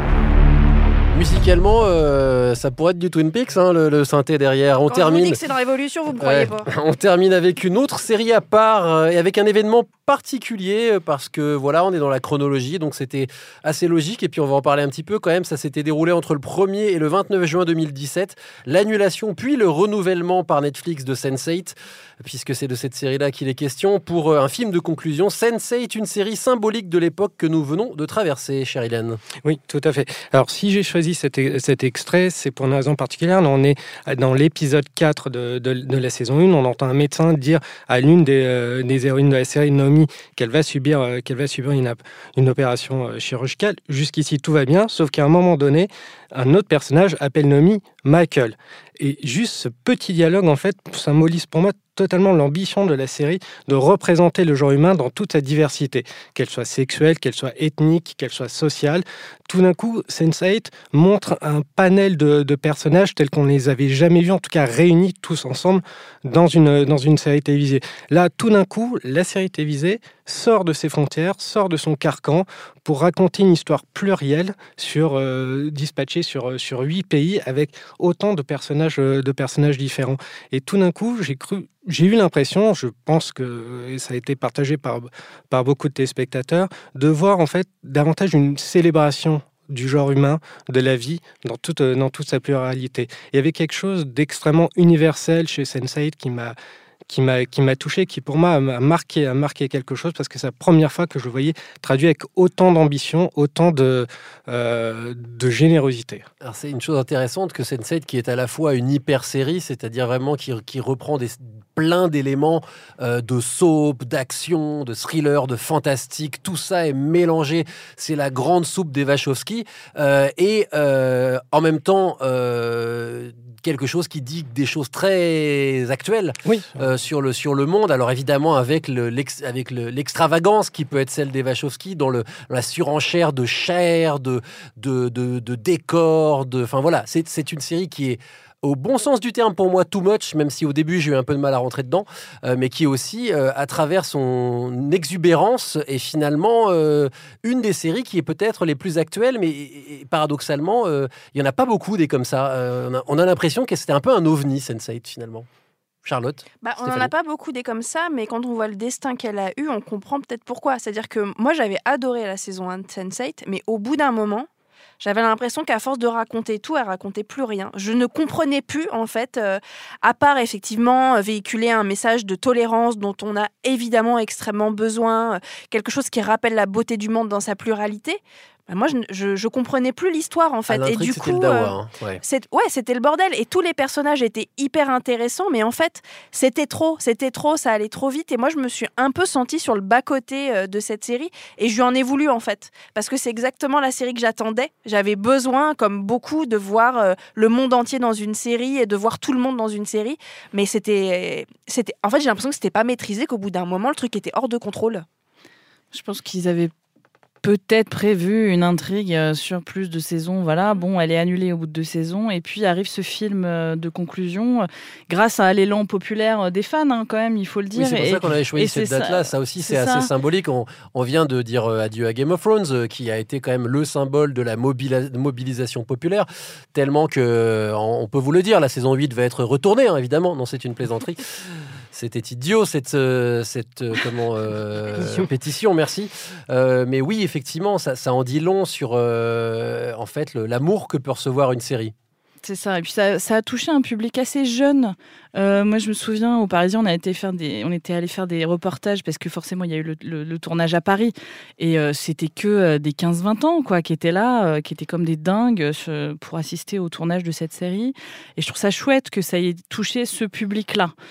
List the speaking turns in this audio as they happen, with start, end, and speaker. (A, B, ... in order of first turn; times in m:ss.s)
0:01.1-0:05.4 A
0:04.9-0:06.7 B
0:06.2-0:29.2 A
0:29.4-1:36.6 C
1:37.1-1:46.2 C
1:46.4-2:35.5 A
2:06.4-2:06.7 C
2:36.0-2:37.1 A
2:36.6-2:44.5 B
2:45.0-3:25.0 B
3:00.7-3:02.2 A
3:25.9-3:26.7 D
3:27.4-3:40.1 D
3:37.8-3:51.2 A
3:51.9-4:01.9 A
4:02.4-4:20.9 D